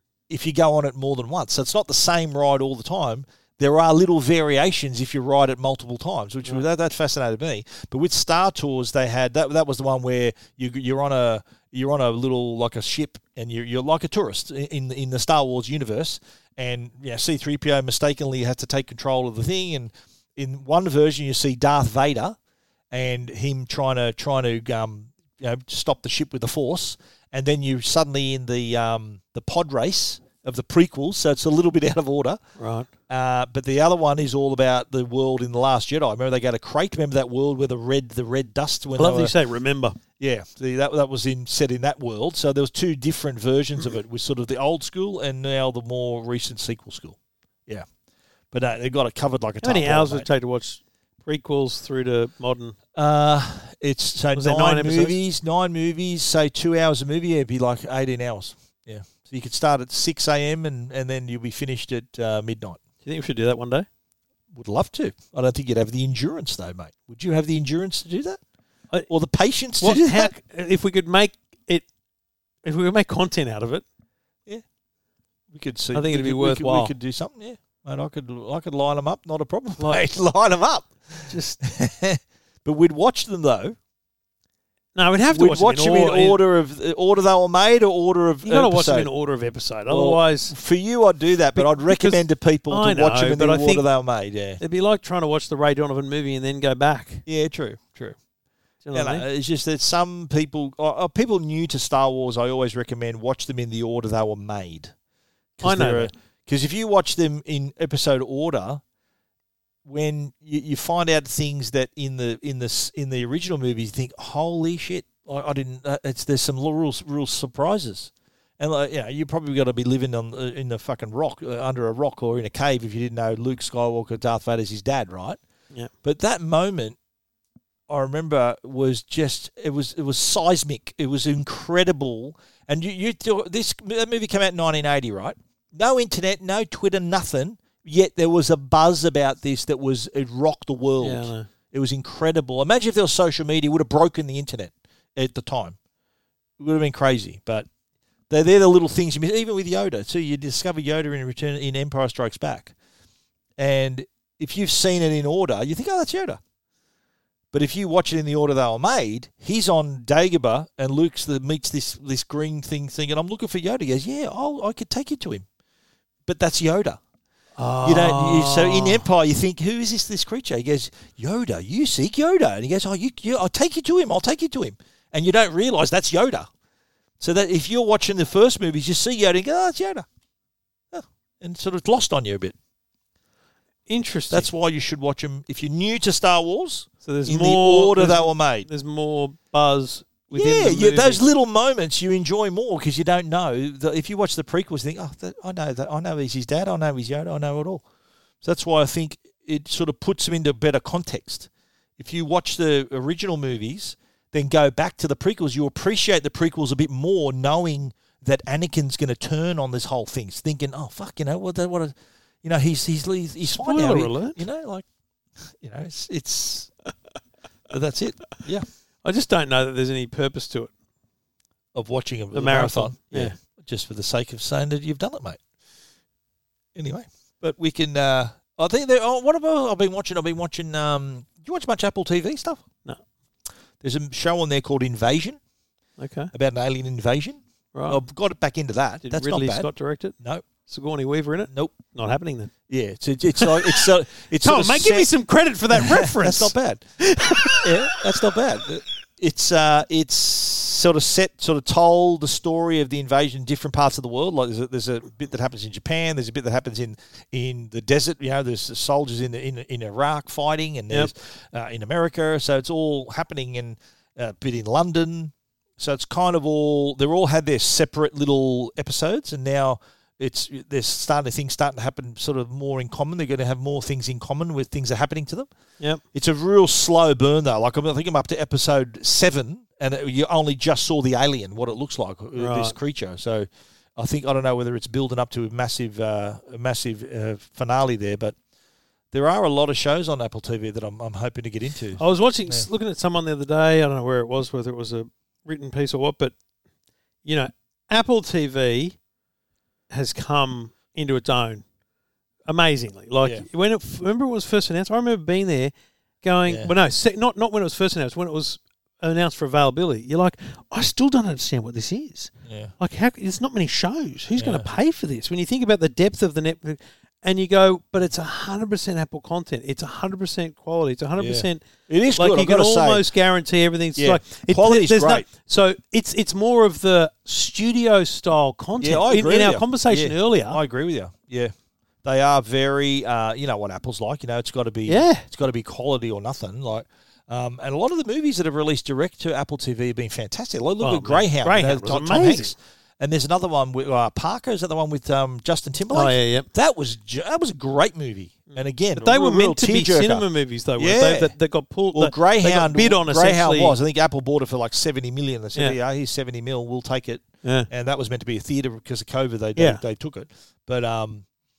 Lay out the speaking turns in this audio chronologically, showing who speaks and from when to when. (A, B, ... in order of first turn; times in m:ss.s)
0:00.3-0:22.4 A
0:22.9-0:32.4 A
0:32.6-0:32.9 B
0:33.1-0:39.3 A
0:39.0-0:40.0 B
0:40.2-0:47.8 A
0:48.5-0:50.3 A
0:49.6-0:52.8 B
0:52.9-1:02.8 A
0:54.4-0:55.2 B
1:03.0-1:03.9 B
1:04.5-1:08.4 A
1:09.1-1:10.3 A
1:09.8-1:11.9 B
1:12.6-1:13.8 B
1:15.5-1:23.8 A
1:15.9-1:16.9 B
1:21.3-1:21.6 B
1:25.0-1:26.4 B
1:25.3-1:29.1 A
1:28.4-1:30.5 B
1:29.9-1:34.6 A
1:31.6-1:33.8 B
1:34.6-1:37.2 B
1:37.3-1:38.2 A
1:38.8-1:39.2 B
1:38.9-1:44.9 A
1:45.6-1:48.8 A
1:45.6-1:46.1 B
1:49.8-2:05.4 A
2:06.0-2:07.0 A
2:07.9-2:25.8 A
2:21.0-2:21.5 B
2:26.6-2:27.7 A
2:28.3-2:32.7 A
2:33.6-2:36.4 A
2:37.5-2:45.4 A
2:46.3-2:47.0 A
2:47.6-2:49.1 B
2:47.8-2:56.5 A
2:57.2-3:00.1 A
3:00.9-3:02.6 A
3:03.9-3:04.5 B
3:04.3-3:08.7 A
3:07.0-3:11.2 B
3:10.3-3:17.8 A
3:18.4-3:34.9 A
3:33.4-3:34.4 B
3:35.4-3:36.7 A
3:37.7-3:38.7 A
3:39.0-3:40.7 B
3:41.7-3:45.4 A
3:42.3-3:43.4 B
3:46.8-3:52.6 A
3:53.8-3:55.4 A
3:56.0-3:56.3 B
3:56.3-3:59.7 A
3:57.7-3:58.0 B
3:59.0-4:00.2 B
4:00.2-4:00.5 A
4:00.7-4:02.5 B
4:01.5-4:01.8 A
4:02.7-4:05.1 A
4:03.4-4:03.9 B
4:04.4-4:08.0 B
4:05.7-4:06.8 A
4:07.6-4:35.5 A
4:36.1-4:48.4 A
4:42.4-4:42.8 B
4:49.1-4:52.7 A
4:52.0-4:56.4 B
4:57.2-4:59.0 B
4:59.9-5:01.6 B
5:02.5-5:30.6 B
5:12.4-5:12.7 A
5:14.4-5:14.7 A
5:21.2-5:23.1 A
5:24.0-5:25.3 A
5:28.8-5:31.5 A
5:32.0-5:50.3 A
5:34.9-5:35.3 B
5:40.8-5:42.5 B
5:45.9-5:46.5 B
5:48.5-5:53.8 B
5:50.8-5:51.3 A
5:51.9-6:01.2 A
5:57.4-5:57.7 B
5:59.6-5:59.8 B